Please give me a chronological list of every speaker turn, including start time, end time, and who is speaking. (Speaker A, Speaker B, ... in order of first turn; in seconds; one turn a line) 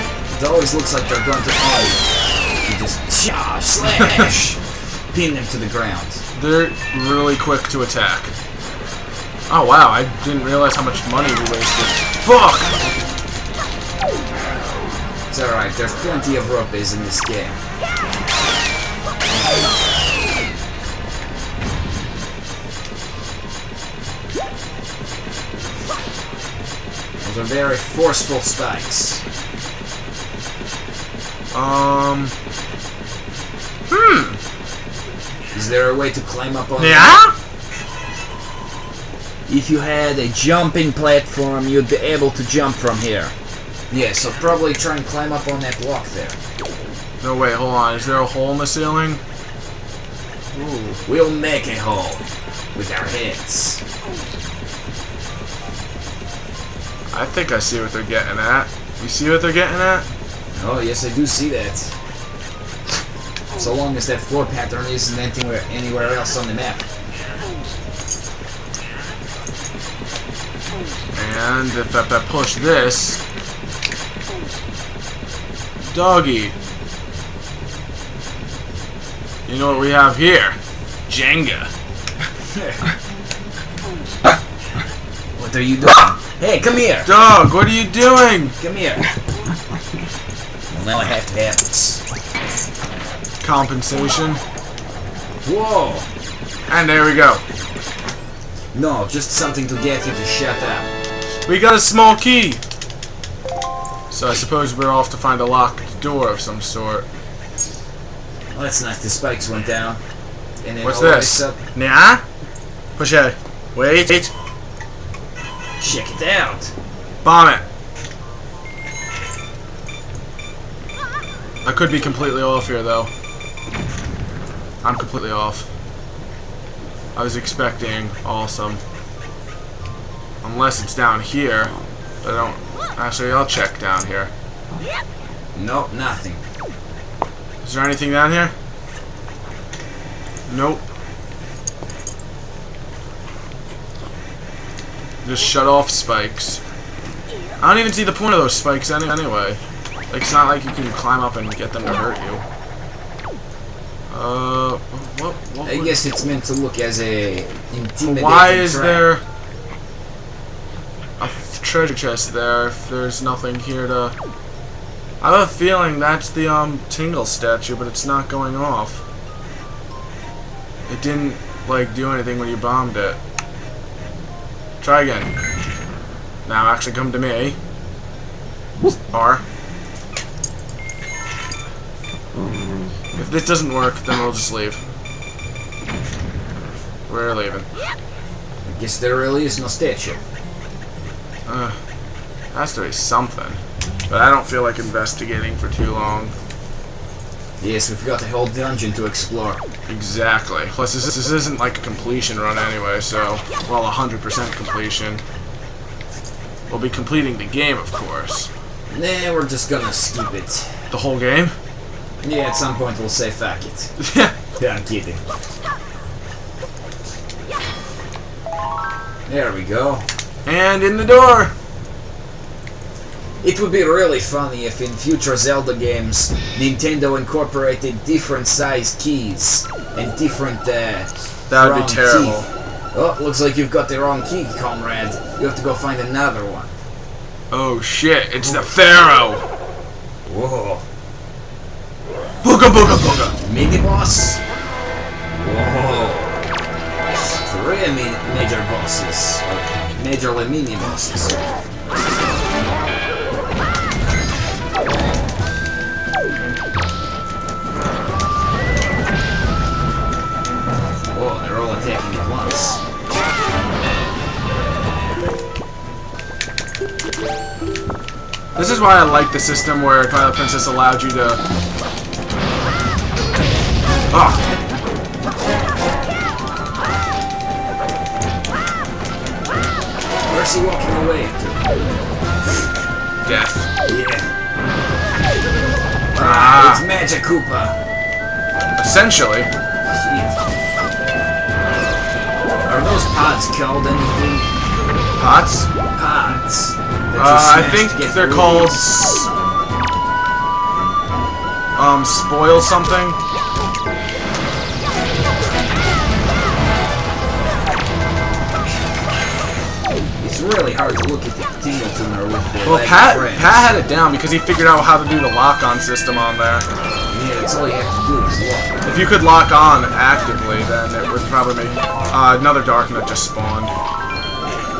Speaker A: 0.3-2.1
Speaker A: 2.6-6.2
Speaker B: 6.3-8.3
Speaker B: 9.5-12.8
Speaker A: 15.3-17.6
Speaker A: 27.2-29.2
Speaker B: 31.5-32.3
Speaker B: 33.9-34.4
Speaker A: 35.5-37.1
Speaker B: 36.8-37.3
Speaker A: 39.5-43.3
Speaker A: 43.9-46.4
Speaker B: 47.2-49.2
Speaker B: 50.5-51.0
Speaker A: 51.0-52.2
Speaker A: 52.7-53.8
Speaker B: 57.1-60.0
Speaker A: 60.5-61.9
Speaker A: 63.5-66.8
Speaker B: 71.1-73.2
Speaker B: 75.8-76.5
Speaker B: 79.5-81.7
Speaker A: 82.5-82.8
Speaker A: 85.3-87.1
Speaker B: 87.0-88.5
Speaker A: 88.6-89.1
Speaker A: 90.7-92.0
Speaker B: 93.4-94.4
Speaker A: 95.4-96.1
Speaker B: 96.7-97.4
Speaker A: 98.7-100.9
Speaker B: 101.5-102.6
Speaker B: 104.1-107.0
Speaker A: 108.5-110.0
Speaker A: 110.6-111.6
Speaker B: 110.8-112.2
Speaker B: 113.0-114.3
Speaker A: 115.8-116.7
Speaker B: 117.2-117.6
Speaker B: 121.6-123.1
Speaker B: 124.8-125.7
Speaker B: 127.1-128.8
Speaker B: 130.4-134.3
Speaker A: 135.5-136.4
Speaker B: 137.6-138.5
Speaker B: 140.5-140.8
Speaker B: 145.2-146.6
Speaker B: 147.6-152.4
Speaker B: 154.1-156.0
Speaker A: 155.6-159.1
Speaker B: 158.0-159.2
Speaker B: 161.2-164.1
Speaker B: 165.2-169.0
Speaker B: 170.9-173.2
Speaker B: 174.8-175.3
Speaker B: 176.4-177.6
Speaker B: 179.1-179.4
Speaker B: 183.1-184.8
Speaker B: 187.1-187.7
Speaker A: 188.6-190.2
Speaker B: 191.5-191.8
Speaker B: 192.5-196.3
Speaker A: 197.6-199.6
Speaker B: 199.9-205.2
Speaker B: 206.7-208.5
Speaker A: 208.9-210.8
Speaker B: 210.9-211.5
Speaker A: 212.2-213.9
Speaker B: 214.0-214.3
Speaker A: 214.6-215.2
Speaker A: 219.2-220.1
Speaker B: 220.4-221.5
Speaker A: 223.4-236.7
Speaker B: 231.5-232.5
Speaker B: 237.5-239.4
Speaker A: 240.2-240.8
Speaker B: 242.4-243.4
Speaker A: 243.4-244.4
Speaker A: 245.3-246.4
Speaker A: 247.2-251.3
Speaker A: 261.1-262.8
Speaker B: 268.5-271.4
Speaker B: 274.1-274.4
Speaker A: 280.3-281.6
Speaker B: 283.2-283.7
Speaker A: 283.9-284.3
Speaker A: 286.1-287.8
Speaker B: 286.2-286.8
Speaker B: 288.8-289.5
Speaker A: 289.8-290.4
Speaker A: 292.6-294.5
Speaker B: 295.2-295.7
Speaker A: 295.9-299.3
Speaker B: 297.1-298.9
Speaker B: 301.7-303.2
Speaker A: 310.2-313.7
Speaker B: 312.6-316.6
Speaker A: 317.1-318.7
Speaker B: 318.8-323.7